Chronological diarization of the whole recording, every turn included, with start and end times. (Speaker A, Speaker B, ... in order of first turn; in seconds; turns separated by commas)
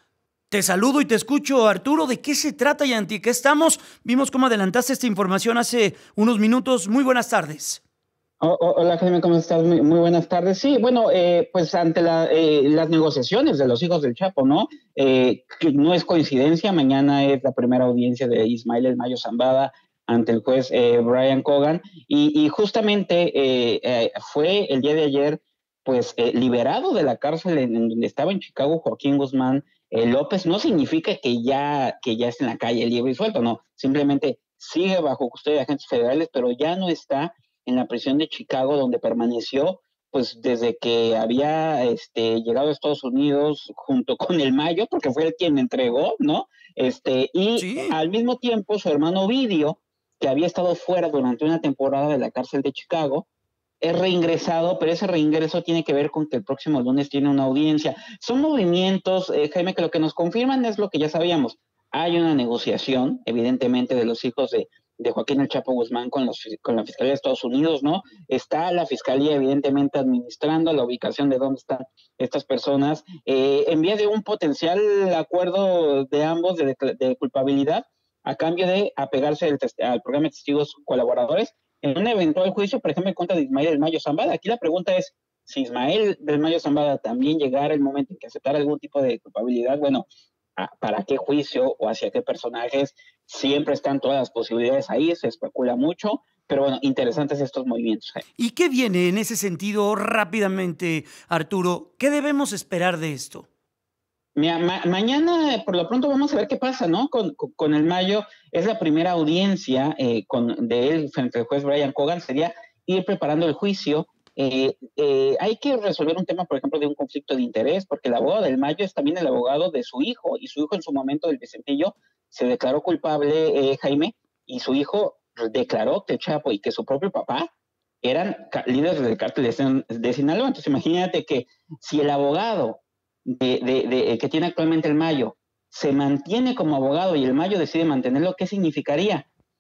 Speaker A: 0.5-7.8, Speaker B: 8.4-53.3, Speaker A: 47.6-48.0, Speaker B: 53.8-90.0, Speaker B: 90.6-98.2, Speaker A: 98.4-103.5, Speaker B: 104.3-127.5, Speaker B: 128.0-139.3